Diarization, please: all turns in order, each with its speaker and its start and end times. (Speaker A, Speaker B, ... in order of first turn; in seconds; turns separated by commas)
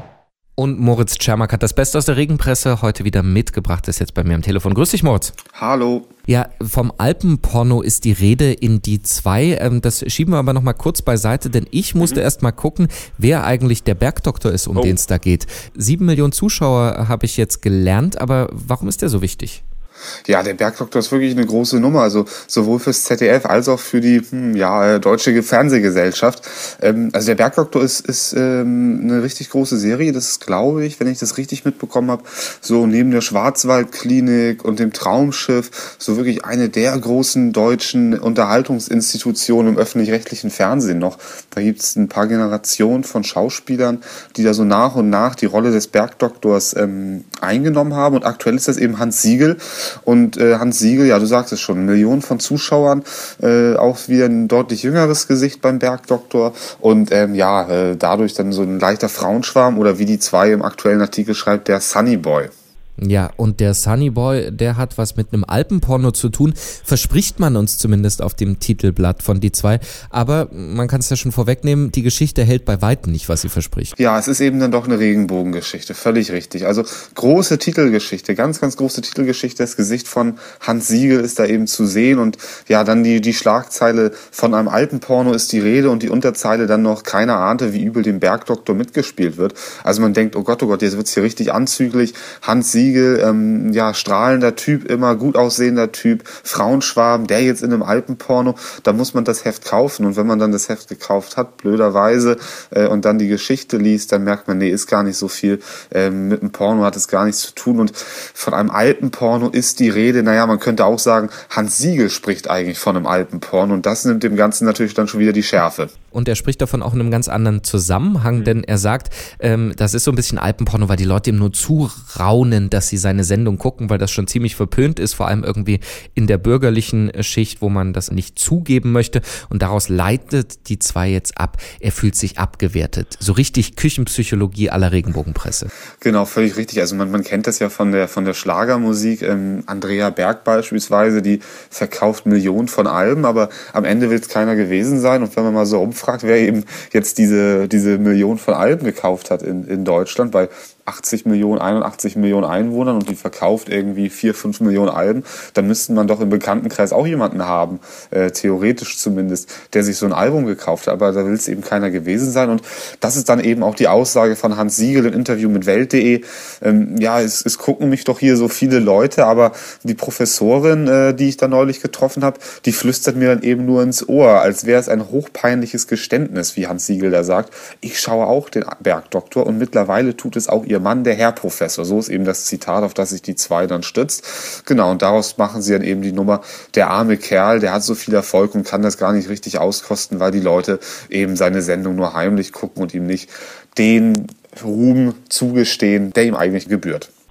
Speaker A: 0.6-5.3, Speaker B: 5.5-6.1, Speaker A: 6.3-19.6, Speaker B: 20.3-62.5, Speaker A: 63.0-73.9, Speaker B: 74.0-115.9, Speaker A: 116.1-135.7, Speaker B: 136.0-197.1